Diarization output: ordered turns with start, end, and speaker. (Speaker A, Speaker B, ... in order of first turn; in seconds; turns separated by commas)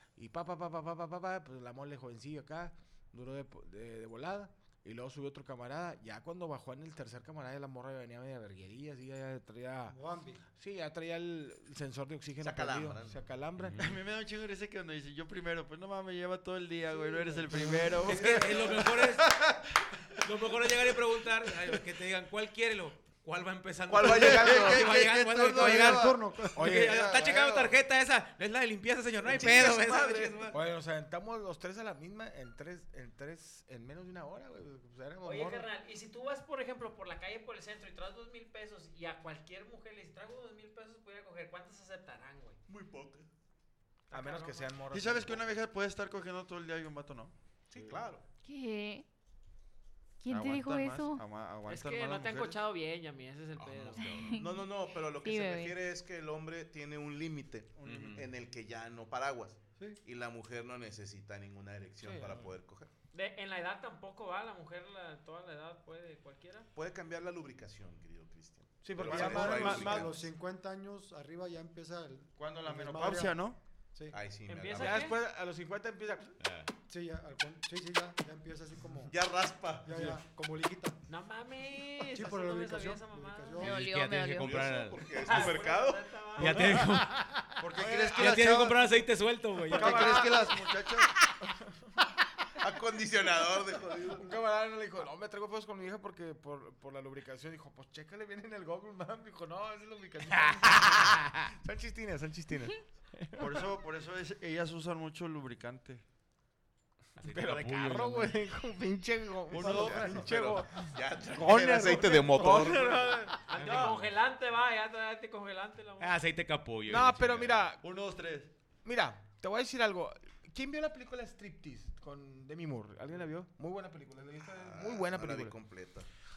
Speaker A: 0.2-10.0, Speaker B: 9.9-10.4, Speaker A: 10.6-13.8, Speaker C: 12.4-13.2, Speaker D: 13.6-14.0, Speaker E: 13.8-19.7, Speaker B: 17.3-17.8, Speaker A: 17.4-18.3, Speaker D: 18.0-19.4, Speaker D: 20.2-30.6, Speaker C: 23.9-25.1, Speaker E: 23.9-27.1, Speaker B: 25.8-26.5, Speaker A: 26.6-27.7, Speaker C: 29.2-30.5, Speaker A: 30.5-35.7, Speaker F: 35.2-42.6, Speaker C: 42.7-43.3, Speaker F: 44.1-44.8, Speaker A: 44.1-45.4, Speaker E: 44.9-47.3, Speaker C: 47.7-48.2, Speaker G: 48.5-49.0, Speaker G: 50.2-51.2, Speaker E: 50.3-52.6, Speaker F: 51.7-54.0, Speaker D: 53.6-54.4, Speaker G: 54.0-54.7, Speaker C: 54.4-62.9, Speaker G: 55.2-55.7, Speaker A: 57.8-58.1, Speaker D: 57.8-58.3, Speaker A: 62.0-62.5, Speaker F: 63.1-66.7, Speaker C: 66.7-70.2, Speaker A: 68.8-70.2, Speaker B: 69.0-73.4, Speaker E: 72.4-73.6, Speaker C: 74.1-75.1, Speaker F: 74.5-75.2, Speaker A: 74.7-76.3, Speaker D: 76.4-76.7, Speaker B: 76.9-79.1, Speaker C: 79.1-80.1, Speaker B: 79.8-81.0, Speaker F: 81.1-83.7, Speaker B: 82.1-83.7, Speaker D: 83.6-85.5, Speaker G: 83.6-84.5, Speaker C: 84.4-86.4, Speaker F: 85.2-86.9, Speaker D: 86.4-87.4, Speaker A: 86.4-87.1, Speaker E: 87.6-89.0, Speaker A: 87.8-88.3, Speaker D: 88.1-90.4, Speaker E: 89.7-91.1, Speaker A: 89.7-90.5, Speaker C: 92.6-94.4, Speaker A: 94.1-103.7, Speaker C: 100.8-101.1, Speaker E: 103.4-106.0, Speaker D: 107.2-108.4, Speaker A: 107.2-113.9, Speaker E: 109.5-110.2, Speaker C: 109.5-113.3, Speaker F: 113.5-116.2, Speaker D: 113.5-114.1, Speaker D: 116.0-117.7, Speaker A: 116.9-117.8, Speaker E: 117.8-118.5, Speaker A: 118.8-125.6, Speaker C: 124.4-126.1